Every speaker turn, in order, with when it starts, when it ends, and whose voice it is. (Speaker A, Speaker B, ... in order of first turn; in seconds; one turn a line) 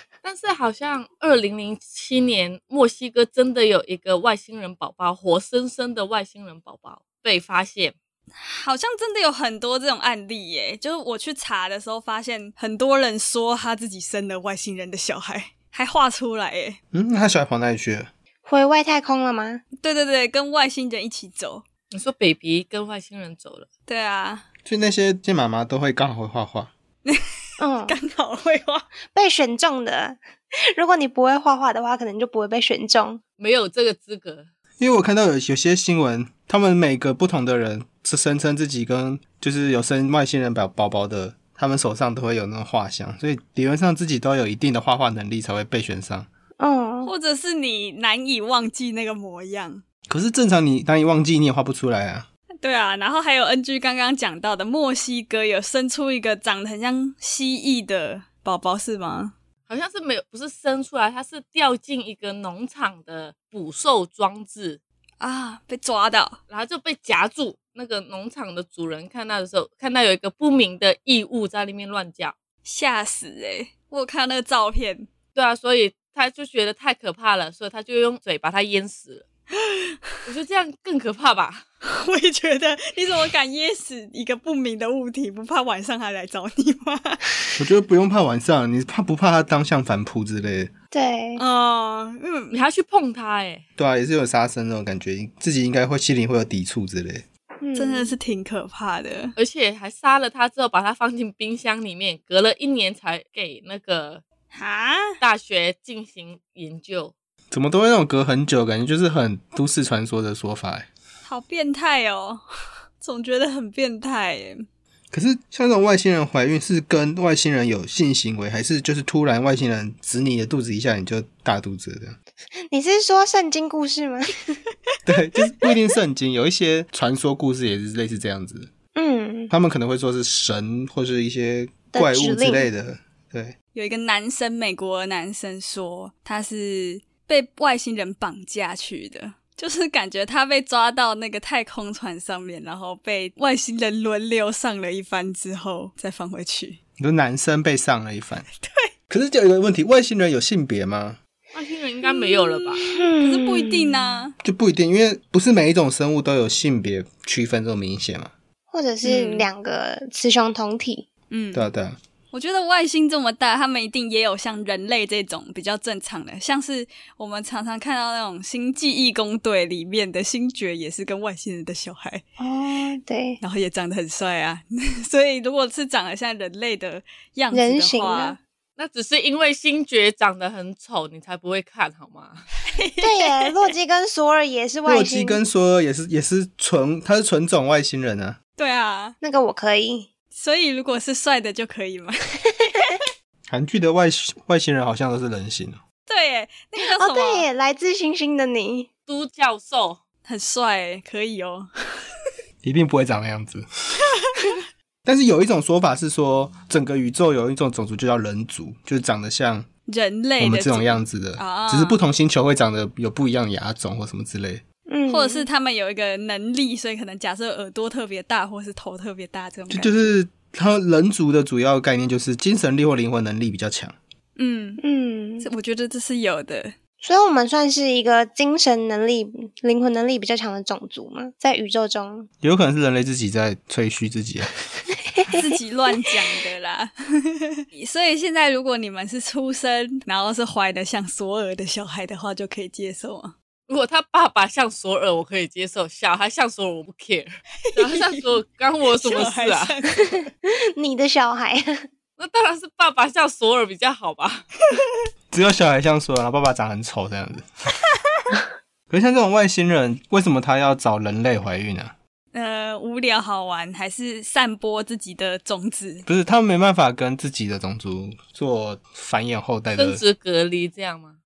Speaker A: 0.2-8.0
Speaker B: 8.4-16.8
Speaker C: 16.9-18.1
Speaker D: 18.4-19.6
Speaker B: 19.8-21.6
Speaker A: 21.9-23.7
Speaker B: 23.9-24.5
Speaker C: 24.7-26.7
Speaker D: 27.6-28.0
Speaker B: 27.9-28.9
Speaker D: 29.1-33.2
Speaker A: 33.4-34.5
Speaker C: 34.8-46.3
Speaker D: 46.6-47.1
Speaker B: 47.0-49.8
Speaker C: 50.1-52.3
Speaker B: 52.6-59.3
Speaker A: 59.7-64.8
Speaker B: 65.2-66.4
Speaker A: 66.5-72.3
Speaker B: 72.7-75.1
Speaker A: 75.3-79.2
Speaker B: 79.6-80.0
Speaker A: 80.2-81.7
Speaker B: 81.8-87.2
Speaker C: 87.6-90.7
Speaker D: 90.9-91.4
Speaker B: 91.4-92.6
Speaker A: 92.5-93.6
Speaker C: 93.8-97.2
Speaker D: 97.6-98.1
Speaker B: 97.8-99.3
Speaker A: 99.4-104.2
Speaker B: 104.5-105.2
Speaker A: 105.2-107.1
Speaker C: 107.5-110.9
Speaker B: 111.2-112.4
Speaker B: 113.0-114.6
Speaker C: 115.1-122.2
Speaker D: 122.7-124.5
Speaker C: 125.1-128.7
Speaker D: 128.9-129.5
Speaker C: 129.5-133.6
Speaker D: 131.9-132.7
Speaker B: 133.8-146.8
Speaker C: 147.0-148.5
Speaker B: 148.6-148.9
Speaker C: 149.1-151.2
Speaker A: 151.5-152.9
Speaker B: 152.1-154.3
Speaker D: 152.9-154.2
Speaker C: 154.4-158.3
Speaker D: 158.7-161.1
Speaker B: 159.0-159.5
Speaker B: 161.3-161.7
Speaker C: 161.5-162.0
Speaker B: 162.3-172.2
Speaker D: 172.4-173.4
Speaker B: 173.4-178.4
Speaker D: 177.5-178.4
Speaker A: 178.8-182.4
Speaker B: 182.7-183.6
Speaker D: 183.0-185.4
Speaker C: 184.9-188.4
Speaker B: 188.6-189.2
Speaker D: 189.2-190.1
Speaker B: 190.3-193.0
Speaker C: 193.5-195.8
Speaker B: 196.1-197.5
Speaker D: 196.8-198.9
Speaker A: 199.1-200.0
Speaker B: 200.2-201.7
Speaker C: 202.6-203.7
Speaker B: 204.2-204.6
Speaker C: 205.1-209.7
Speaker B: 209.9-212.0
Speaker C: 210.4-214.6
Speaker D: 214.9-215.5
Speaker B: 215.1-220.1
Speaker C: 219.7-223.9
Speaker B: 224.4-224.8
Speaker D: 224.8-225.5
Speaker B: 225.4-226.8
Speaker D: 227.0-232.3
Speaker C: 232.4-234.5
Speaker D: 235.2-235.5
Speaker B: 235.3-243.3
Speaker A: 243.7-249.8
Speaker B: 247.7-248.3
Speaker B: 249.0-250.3
Speaker D: 250.5-251.8
Speaker A: 252.2-254.5
Speaker C: 255.3-257.5
Speaker C: 258.9-261.9
Speaker B: 262.3-266.1
Speaker C: 266.1-270.0
Speaker A: 269.8-271.2